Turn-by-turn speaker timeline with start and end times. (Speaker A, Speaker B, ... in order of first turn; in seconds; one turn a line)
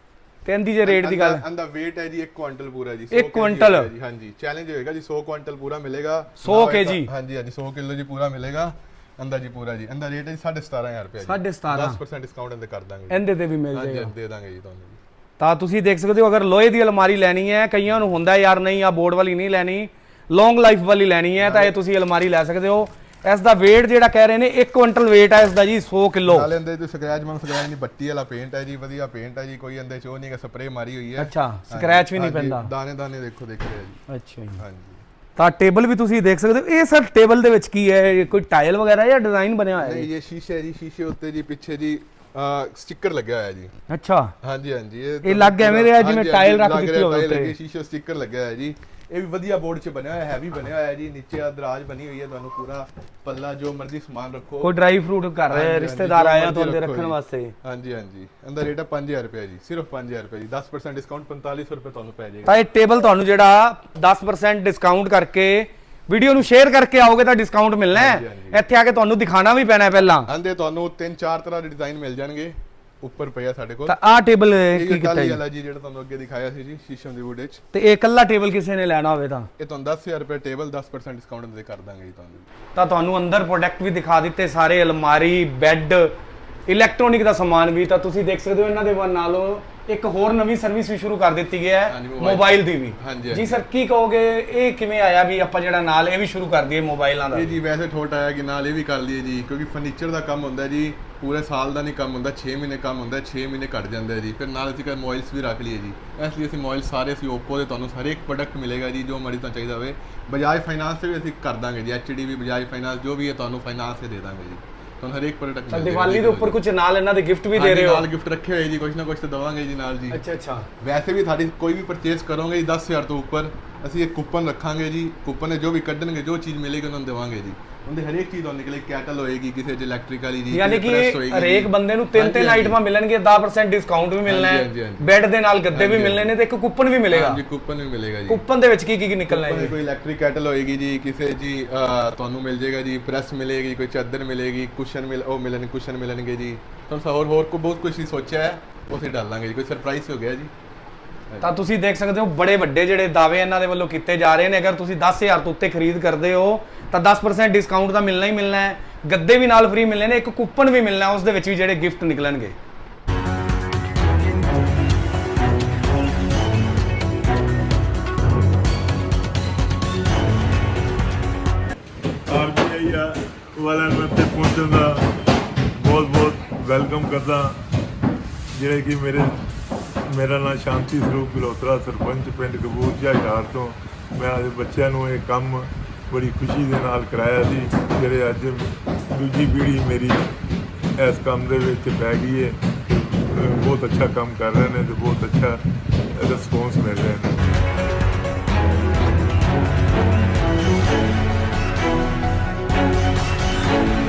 Speaker A: 0.4-1.4
Speaker B: 0.8-15.0
Speaker A: 3.1-3.9
Speaker A: 6.4-7.1
Speaker A: 11.2-12.0
Speaker A: 13.1-14.1
Speaker A: 15.4-26.5
Speaker B: 21.4-21.8
Speaker B: 26.3-34.0
Speaker A: 31.2-32.7
Speaker A: 34.1-34.6
Speaker B: 34.6-35.0
Speaker A: 35.4-40.1
Speaker B: 39.8-43.7
Speaker A: 43.9-44.3
Speaker B: 44.4-54.7
Speaker A: 45.2-47.5
Speaker A: 54.6-57.5
Speaker B: 55.5-62.6
Speaker A: 62.5-70.3
Speaker B: 67.9-68.6
Speaker B: 70.3-74.0
Speaker A: 73.9-75.4
Speaker B: 74.7-77.6
Speaker A: 77.7-79.5
Speaker B: 79.6-82.5
Speaker A: 82.7-86.1
Speaker A: 86.7-97.5
Speaker B: 91.9-93.6
Speaker B: 97.3-116.6
Speaker A: 115.7-118.1
Speaker B: 117.5-120.2
Speaker A: 120.1-120.7
Speaker B: 120.8-132.8
Speaker A: 130.5-137.4
Speaker B: 134.2-135.1
Speaker B: 135.7-136.3
Speaker B: 137.1-138.4
Speaker A: 138.3-139.8
Speaker B: 139.3-150.5
Speaker A: 151.4-162.5
Speaker C: 172.3-175.1
Speaker C: 175.8-177.6
Speaker C: 178.5-179.4
Speaker C: 180.1-190.3
Speaker C: 191.0-195.6
Speaker C: 196.1-197.4